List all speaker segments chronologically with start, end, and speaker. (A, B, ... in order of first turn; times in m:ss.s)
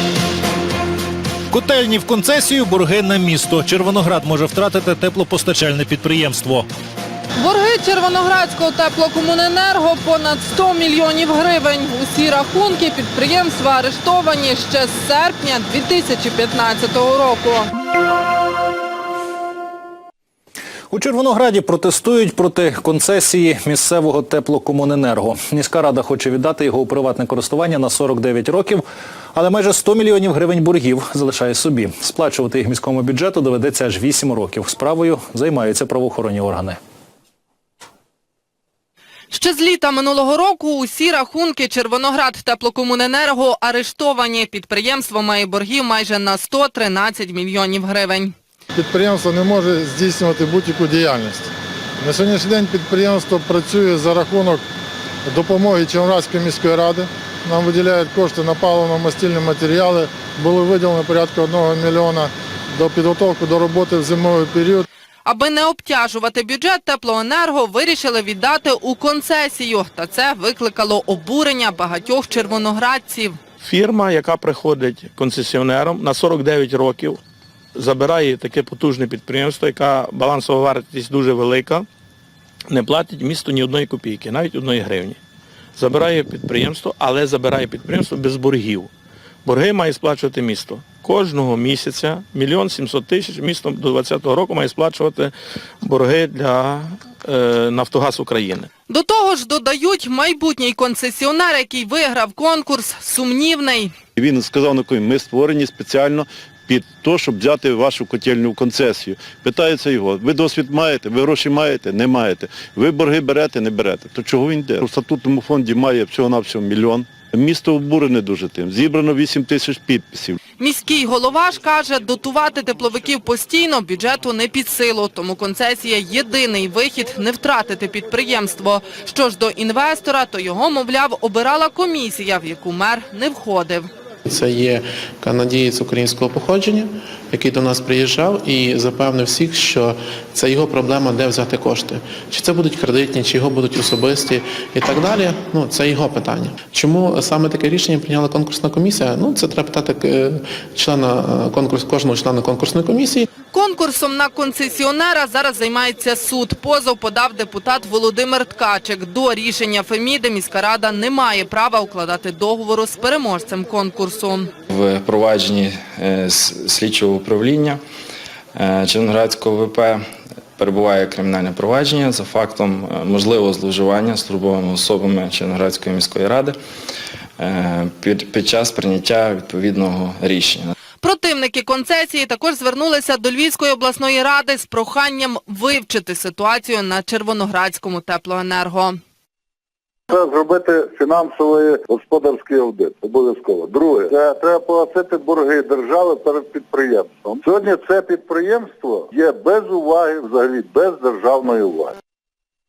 0:01.5-0:06.7 A
0:07.4-0:17.7 B
0:20.9-0:36.8 C
0:39.3-0:48.3 B
0:48.8-0:51.4 D
0:52.0-0:54.6 D
0:55.3-1:04.8 D
1:05.2-1:13.4 B
1:13.6-1:17.2 E
1:17.8-1:21.8 E
1:22.7-1:25.2 E
1:25.8-1:28.9 E
1:29.4-1:38.7 E
1:38.9-1:43.9 B
1:44.2-2:00.4 F
2:00.6-2:13.9 B
2:14.2-2:33.3 G
2:33.5-2:44.5 B
2:44.7-2:47.8 H
2:48.5-2:50.0 H
2:50.6-2:56.6 H
2:57.4-3:00.7 H
3:01.0-3:09.0 B
3:10.1-3:22.0 I